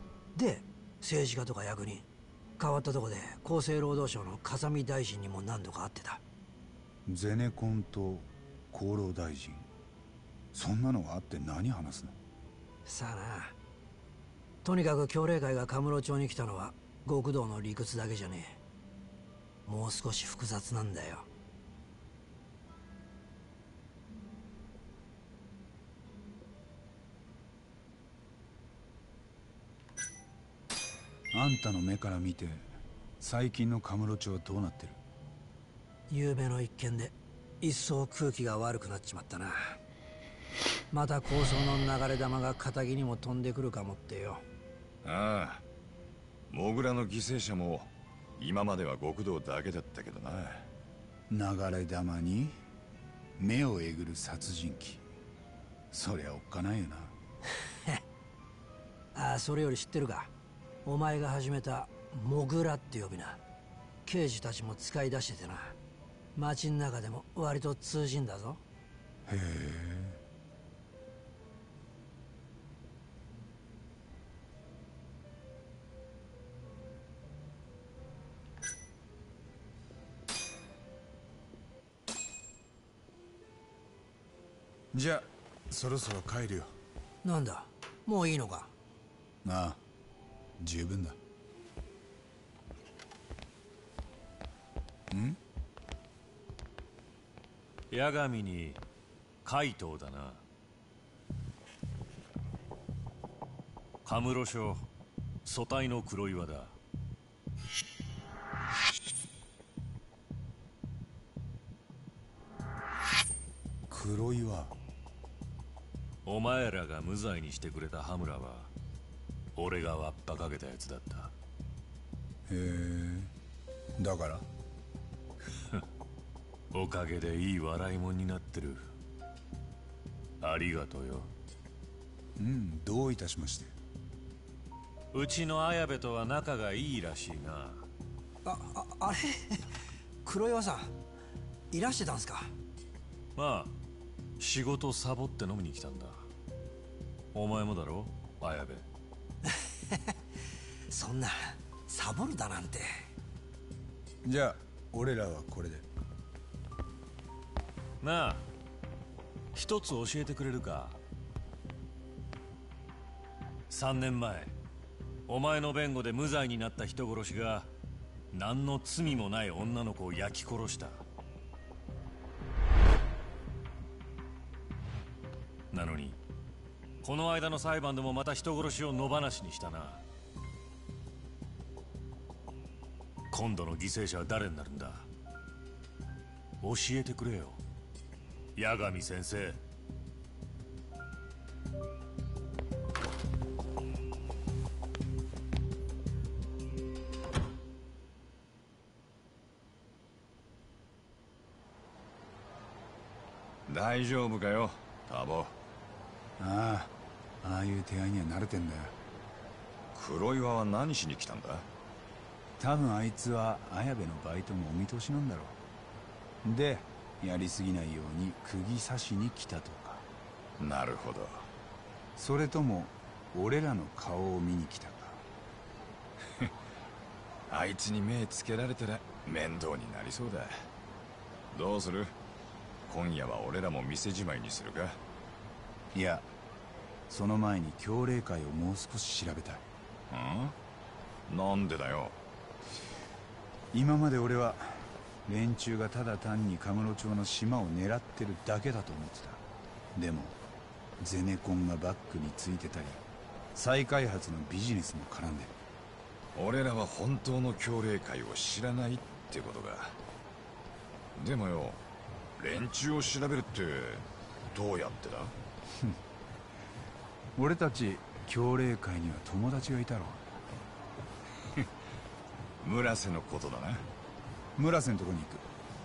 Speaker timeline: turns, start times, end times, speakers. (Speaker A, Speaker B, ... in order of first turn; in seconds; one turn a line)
Speaker A: 0.3-2.1
Speaker A: 2.6-6.2
Speaker B: 7.1-9.7
Speaker B: 10.5-12.2
Speaker A: 12.8-13.6
Speaker A: 14.6-18.6
Speaker A: 19.6-21.3
Speaker B: 31.3-35.0
Speaker A: 36.1-39.8
Speaker A: 40.9-44.4
Speaker C: 45.0-45.6
Speaker C: 46.5-50.7
Speaker B: 51.3-52.6
Speaker B: 53.4-55.0
Speaker B: 55.9-57.1
Speaker A: 59.1-60.3
Speaker A: 60.9-63.4
Speaker A: 64.0-65.8
Speaker A: 66.3-68.6
Speaker B: 69.3-70.2
Speaker B: 84.9-86.7
Speaker A: 87.2-88.7
Speaker B: 89.4-89.8
Speaker B: 90.6-91.2
Speaker B: 95.1-95.4
Speaker D: 97.9-98.8
Speaker D: 99.4-100.4
Speaker D: 104.0-104.8
Speaker D: 105.5-106.8
Speaker B: 113.9-114.7
Speaker D: 116.2-118.7
Speaker D: 119.5-121.3
Speaker B: 122.5-123.3
Speaker B: 124.0-124.5
Speaker D: 126.7-128.9
Speaker D: 130.4-131.3
Speaker B: 132.4-133.7
Speaker D: 135.1-137.8
Speaker A: 138.4-139.7
Speaker A: 140.2-140.9
Speaker A: 141.7-142.5
Speaker D: 143.4-143.7
Speaker D: 144.4-146.2
Speaker D: 147.3-148.9
Speaker A: 149.4-150.1
Speaker A: 150.9-153.1
Speaker B: 154.2-155.8
Speaker D: 158.0-158.4
Speaker D: 159.5-161.0
Speaker D: 163.7-164.5
Speaker D: 165.3-167.7
Speaker D: 168.3-171.0
Speaker D: 175.7-176.2
Speaker D: 177.0-180.0
Speaker D: 183.3-185.1
Speaker D: 186.6-187.6
Speaker D: 188.6-189.6
Speaker C: 203.7-205.6
Speaker B: 206.4-208.9
Speaker C: 209.9-211.7
Speaker B: 212.6-215.6
Speaker B: 216.4-220.0
Speaker C: 220.6-221.5
Speaker B: 222.2-225.2
Speaker C: 227.5-230.7
Speaker C: 231.5-232.1
Speaker C: 232.9-235.0
Speaker B: 235.9-236.3
Speaker B: 237.1-239.7
Speaker C: 240.1-240.6
Speaker C: 241.3-242.2
Speaker B: 243.7-249.4
Speaker B: 249.9-250.3
Speaker B: 251.0-253.0
Speaker B: 253.6-255.5
Speaker C: 256.4-260.0
Speaker C: 261.2-261.8
Speaker C: 262.4-265.4
Speaker B: 267.4-270.3
Speaker C: 272.6-273.9
Speaker B: 274.6-275.4